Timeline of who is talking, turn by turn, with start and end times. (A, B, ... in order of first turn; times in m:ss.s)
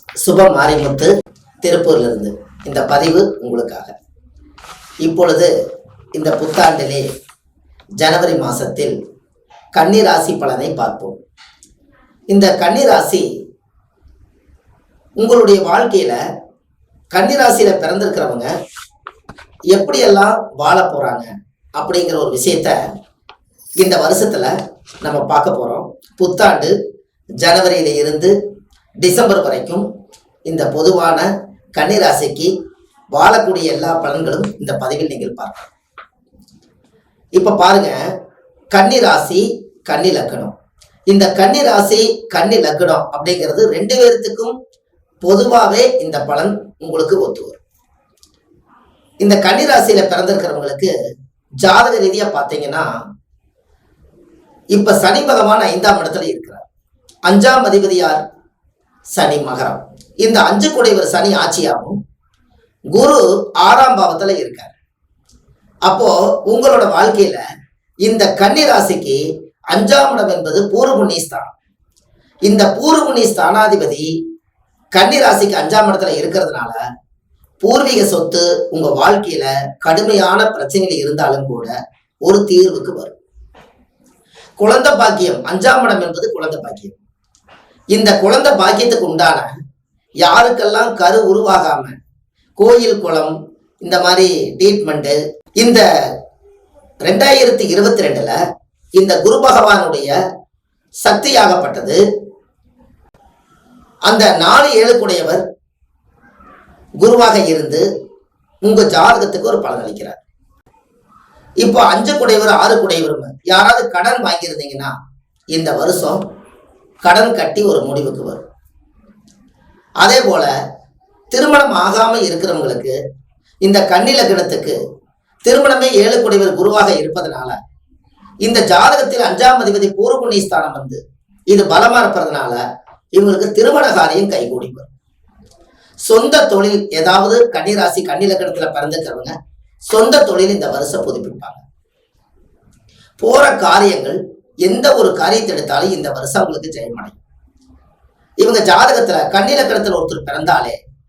0:00.2-0:01.1 A
0:01.6-0:03.9 A
0:05.0-0:05.5 A
0:06.2-0:07.1 A
0:08.0-0:09.0 A
0:09.7-0:11.2 A
0:12.3-0:13.3 A
0:15.2-0:16.2 A
0:17.1-0:18.5 A
0:19.7-0:22.8 A
0:23.8-0:26.8 A
0:27.4-0:28.4 A
0:29.0-0:29.9 A
0:30.5-0:32.5 A
0:33.1-0:35.7 A
0:37.4-0:38.0 A
0:38.7-0:40.5 A
0:41.1-0:44.6 A
0:45.2-0:47.6 A
0:49.2-0:50.9 A
0:51.6-0:52.9 A
0:54.7-0:56.7 A
0:57.3-0:58.2 A
0:59.2-1:02.0 A
1:02.9-1:04.7 A
1:05.9-1:07.4 A
1:08.0-1:11.5 A
1:12.5-1:14.1 A
1:14.9-1:16.8 A
1:17.6-1:21.7 A
1:22.2-1:23.2 A
1:24.6-1:27.0 A
1:27.9-1:29.5 A
1:30.2-1:32.0 A
1:32.6-1:35.8 A
1:37.0-1:38.4 A
1:39.0-1:40.2 A
1:41.0-1:42.0 A
1:44.1-1:45.4 A
1:47.0-1:47.9 A
1:48.6-1:50.2 A
1:51.6-1:54.9 A
1:55.5-1:56.2 A
1:57.0-1:58.4 A
2:00.0-2:00.5 A
2:01.3-2:03.0 A
2:03.6-2:04.8 A
2:05.4-2:07.6 A
2:08.4-2:12.6 A
2:13.1-2:14.9 A
2:16.1-2:19.3 A
2:19.9-2:21.6 A
2:23.2-2:27.2 A
2:28.4-2:30.8 A